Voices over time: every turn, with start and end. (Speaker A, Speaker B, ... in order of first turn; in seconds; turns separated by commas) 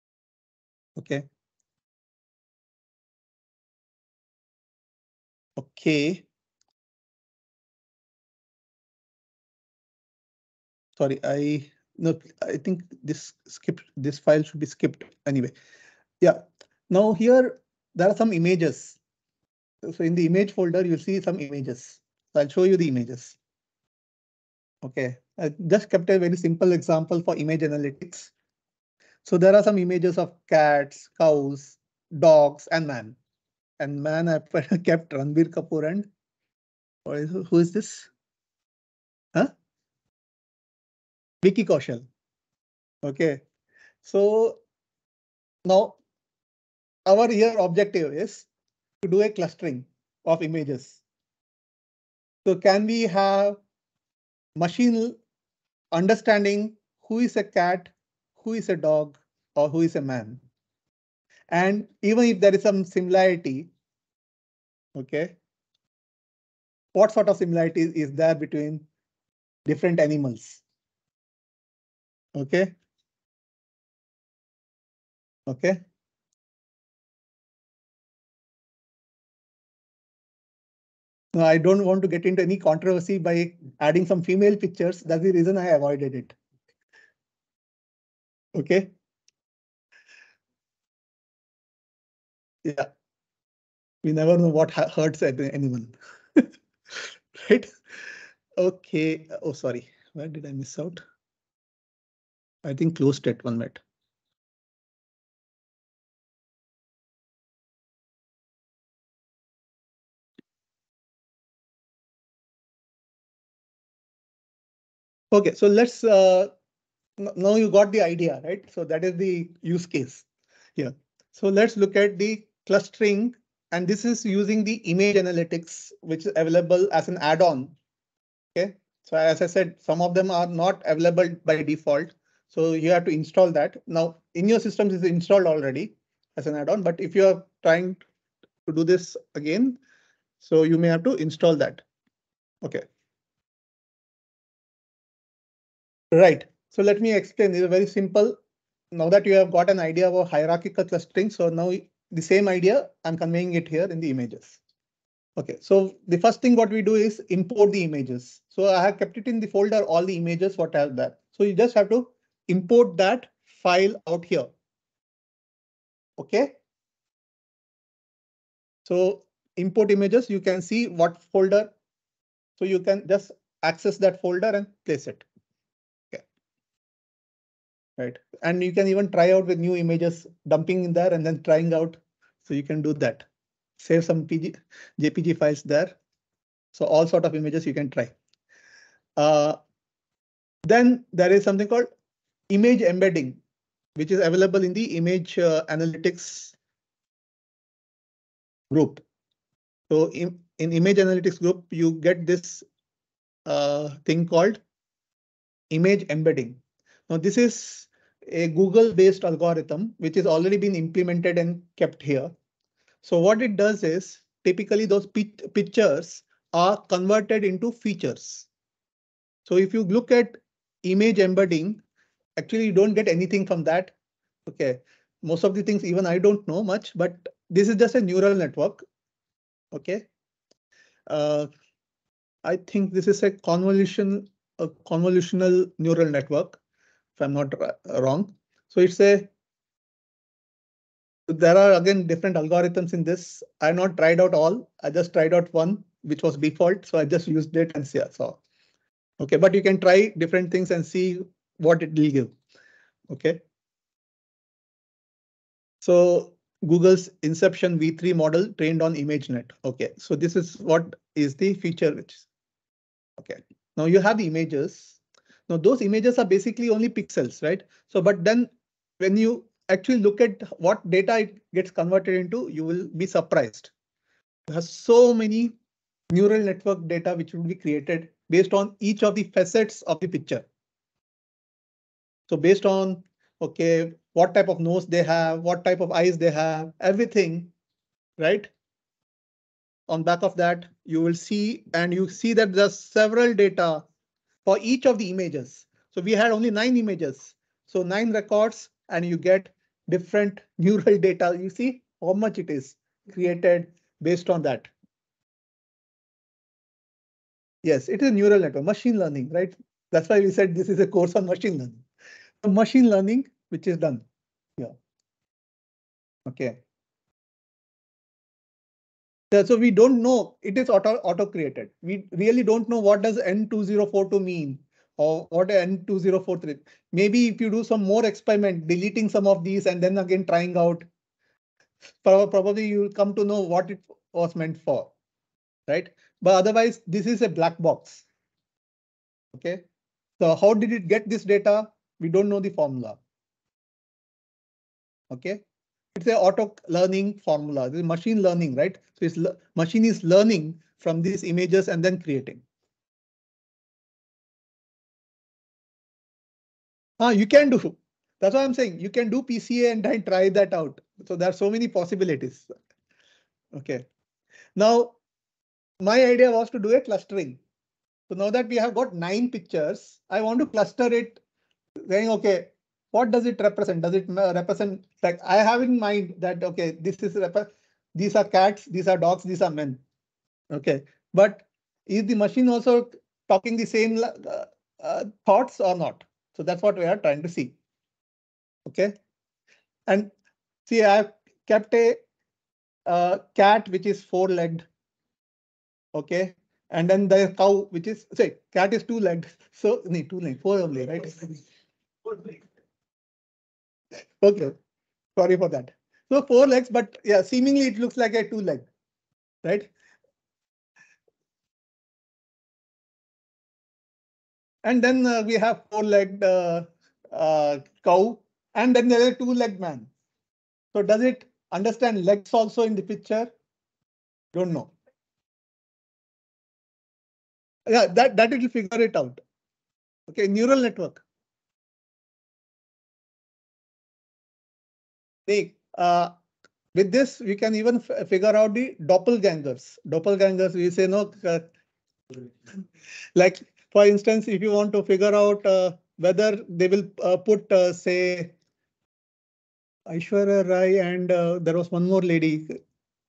Speaker A: 0.9-1.2, Speaker A: 5.6-6.2, Speaker A: 11.0-15.5, Speaker A: 16.2-19.0, Speaker A: 19.8-23.4, Speaker A: 24.8-28.3, Speaker A: 29.2-33.2, Speaker A: 33.8-36.1, Speaker A: 37.0-38.1, Speaker A: 41.4-42.0, Speaker A: 43.0-43.4, Speaker A: 44.0-44.6, Speaker A: 45.6-46.0, Speaker A: 47.0-48.5, Speaker A: 49.0-51.0, Speaker A: 52.4-53.6, Speaker A: 54.5-55.2, Speaker A: 55.9-60.4, Speaker A: 61.5-63.7, Speaker A: 64.9-65.3, Speaker A: 66.9-68.8, Speaker A: 69.7-70.6, Speaker A: 72.3-72.7, Speaker A: 75.5-75.8, Speaker A: 81.3-86.3, Speaker A: 88.5-88.9, Speaker A: 92.6-92.9, Speaker A: 94.0-97.7, Speaker A: 98.6-101.0, Speaker A: 102.6-103.8, Speaker A: 115.3-116.5, Speaker A: 117.2-120.2, Speaker A: 120.8-127.7, Speaker A: 128.5-138.0, Speaker A: 138.7-139.8, Speaker A: 140.4-141.8, Speaker A: 146.1-148.3, Speaker A: 148.9-154.6, Speaker A: 155.3-164.5, Speaker A: 166.2-166.6, Speaker A: 168.8-171.7, Speaker A: 172.6-175.2, Speaker A: 178.0-183.2, Speaker A: 183.8-186.0, Speaker A: 186.7-188.1, Speaker A: 189.2-189.6, Speaker A: 190.6-191.9, Speaker A: 192.5-193.4, Speaker A: 193.9-196.5, Speaker A: 198.7-199.0, Speaker A: 199.9-202.6, Speaker A: 203.4-204.6, Speaker A: 205.7-212.3, Speaker A: 213.0-218.5, Speaker A: 219.4-221.8, Speaker A: 222.4-223.9, Speaker A: 224.4-228.8, Speaker A: 229.7-230.1, Speaker A: 231.1-231.5, Speaker A: 232.4-236.6, Speaker A: 237.2-239.3, Speaker A: 241.3-248.4, Speaker A: 249.2-252.3, Speaker A: 253.1-253.4, Speaker A: 255.8-262.2, Speaker A: 263.2-265.0, Speaker A: 265.5-273.7, Speaker A: 274.5-275.5, Speaker A: 276.1-280.5, Speaker A: 282.3-287.5, Speaker A: 288.2-288.5, Speaker A: 289.9-293.9, Speaker A: 294.4-304.7, Speaker A: 307.6-311.8, Speaker A: 312.4-314.0, Speaker A: 316.2-316.6, Speaker A: 319.3-330.9, Speaker A: 332.0-334.9, Speaker A: 335.7-338.1, Speaker A: 339.3-339.6, Speaker A: 340.2-343.0, Speaker A: 345.1-345.4, Speaker A: 345.9-352.4, Speaker A: 357.0-362.5, Speaker A: 363.5-363.9, Speaker A: 364.6-364.9, Speaker A: 365.8-367.4, Speaker A: 368.1-371.2, Speaker A: 371.8-379.8, Speaker A: 380.5-387.6, Speaker A: 388.6-388.9, Speaker A: 390.6-392.0, Speaker A: 392.9-394.7, Speaker A: 395.9-401.4, Speaker A: 402.1-402.3, Speaker A: 404.2-404.5, Speaker A: 405.1-408.7, Speaker A: 409.4-409.7, Speaker A: 414.6-419.9, Speaker A: 420.7-423.3, Speaker A: 424.3-424.7, Speaker A: 427.7-429.2, Speaker A: 430.1-431.0, Speaker A: 435.3-436.1, Speaker A: 436.7-441.5, Speaker A: 443.1-448.3, Speaker A: 449.9-452.5